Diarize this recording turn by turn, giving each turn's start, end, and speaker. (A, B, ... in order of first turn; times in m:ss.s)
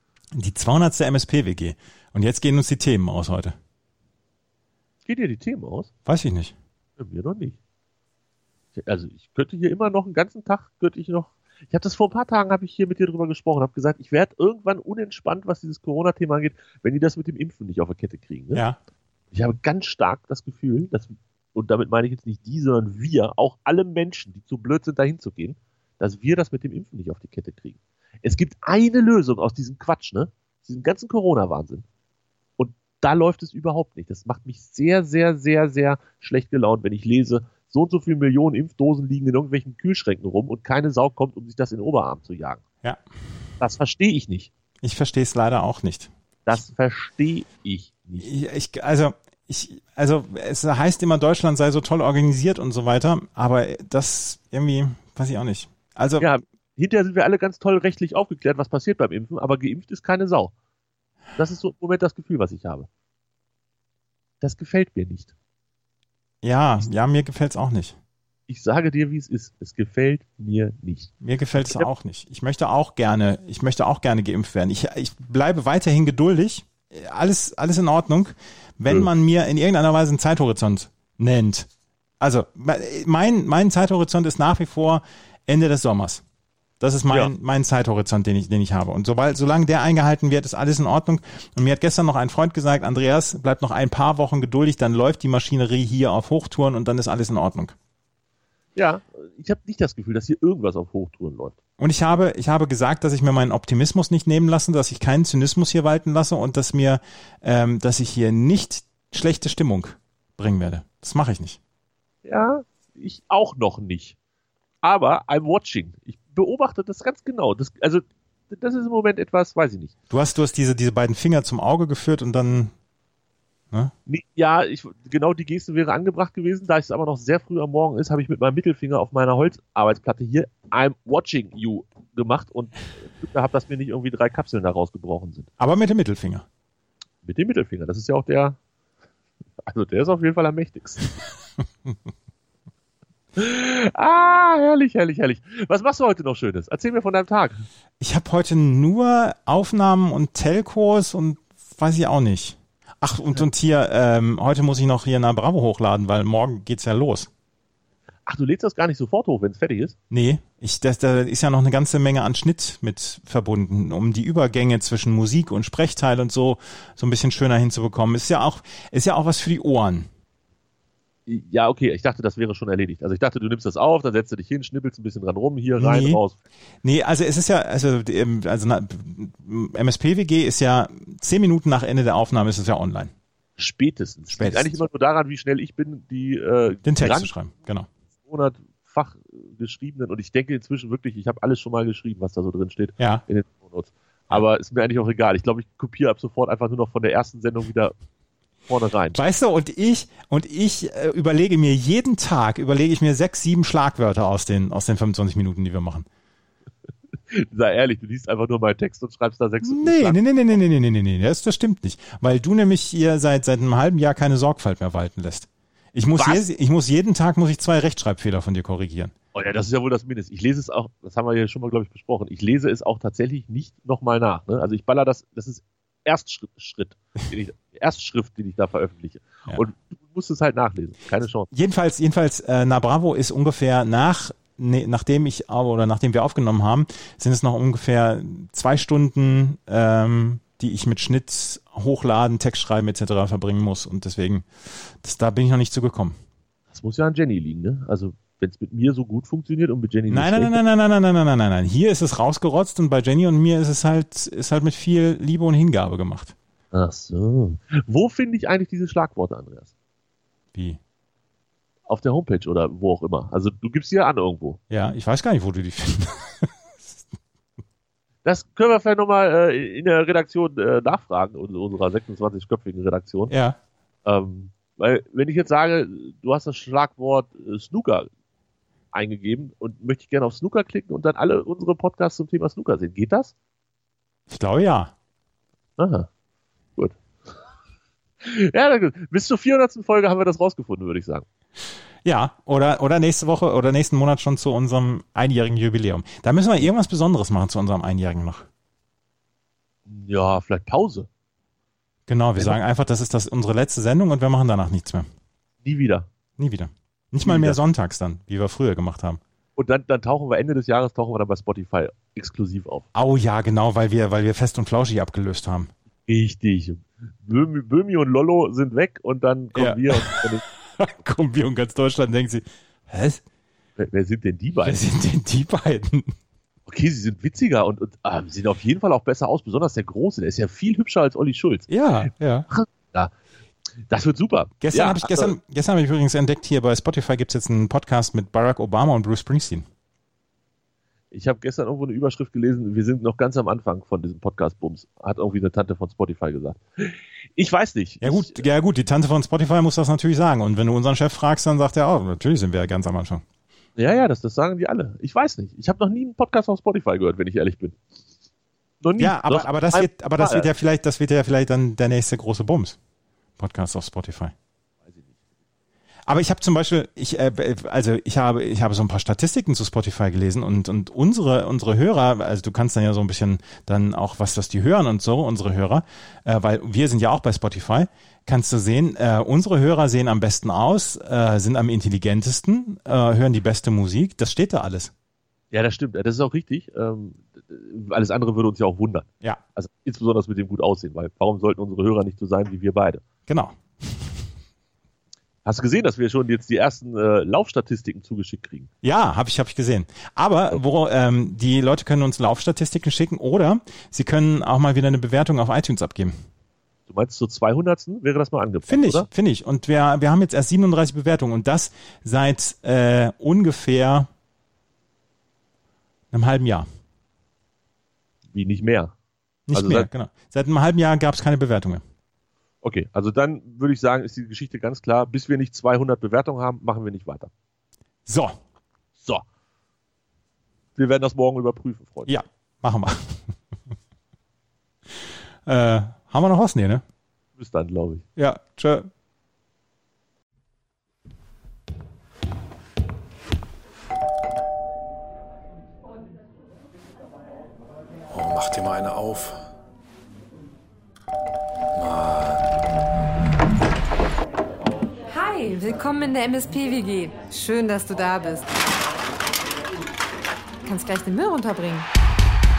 0:00.4-0:03.6 A
0:05.1-0:05.9 B
0:06.1-0:06.6 A
0:07.0-0:07.6 B
0:08.8-0:18.6 B
0:19.3-0:31.8 B
0:32.6-0:42.6 B
0:43.6-0:44.5 B
0:44.8-0:46.6 A
0:46.5-0:48.3 B
0:48.2-0:56.3 A
0:56.2-1:00.5 B
1:01.4-1:02.9 B
1:04.4-1:05.3 B
1:06.4-1:08.0 A
1:08.5-1:11.9 B
1:11.2-1:21.7 A
1:22.2-1:26.2 A
1:26.8-1:37.8 A
1:38.8-1:41.6 B
1:41.8-1:51.6 A
1:52.2-1:54.2 B
1:54.8-1:59.9 B
2:00.1-2:02.7 A
2:04.1-2:15.5 B
2:15.6-2:16.4 A
2:17.2-2:18.6 B
2:19.6-2:21.1 B
2:23.4-2:27.6 B
2:28.0-2:37.3 A
2:38.3-2:40.0 B
2:40.1-2:50.1 A
2:51.3-2:56.4 B
2:55.8-2:56.2 A
2:56.8-3:03.1 A
3:03.6-3:07.3 B
3:04.3-3:04.8 A
3:06.8-3:07.9 A
3:08.3-3:18.0 B
3:13.0-3:13.2 A
3:18.7-3:19.2 B
3:19.1-3:26.1 A
3:27.3-3:30.2 B
3:29.6-3:39.1 A
3:36.2-3:36.4 B
3:39.3-3:51.5 B
3:51.5-4:06.2 A
4:06.7-4:10.6 B
4:10.1-4:16.4 A
4:16.7-4:19.7 B
4:20.5-4:20.8 A
4:21.9-4:24.6 B
4:24.7-4:27.0 A
4:28.2-4:33.3 B
4:33.3-4:33.6 A
4:34.0-4:38.1 B
4:38.9-4:43.3 B
4:44.3-4:44.9 A
4:45.8-4:46.1 B
4:48.2-4:51.3 B
4:52.0-4:58.5 A
4:59.9-5:01.1 B
5:02.1-5:05.1 A
5:05.6-5:06.1 B
5:06.4-5:09.2 A
5:07.2-5:07.6 B
5:09.6-5:12.9 B
5:13.0-5:15.7 A
5:16.1-5:20.4 B
5:19.5-5:23.2 A
5:23.8-5:24.8 B
5:24.6-5:26.1 A
5:26.7-5:31.7 B
5:31.7-5:32.5 A
5:32.5-5:33.1 B
5:33.9-5:35.4 B
5:34.6-5:39.7 A
5:41.1-5:48.4 B
5:48.0-5:53.2 A
5:53.8-5:57.8 B
5:58.8-6:00.5 B
5:59.0-6:02.8 A
6:03.4-6:04.3 A
6:04.9-6:05.2 B
6:06.1-6:24.9 A
6:25.5-6:33.0 B
6:33.3-6:34.1 A
6:35.4-6:38.7 B
6:38.8-6:46.1 A
6:46.9-6:49.1 B
6:48.7-6:54.1 A
6:56.1-6:56.7 A
6:58.3-6:58.9 B
6:59.5-7:01.8 A
6:59.5-6:59.9 B
7:02.6-7:07.3 B
7:08.1-7:08.4 A
7:09.0-7:09.2 B
7:10.8-7:12.1 B
7:12.1-7:13.2 A
7:15.5-7:16.8 A
7:17.4-7:18.0 B
7:18.2-7:18.9 A
7:28.1-7:29.4 C
7:31.7-7:32.5 C
7:35.1-7:38.6 D
7:40.7-7:41.9 D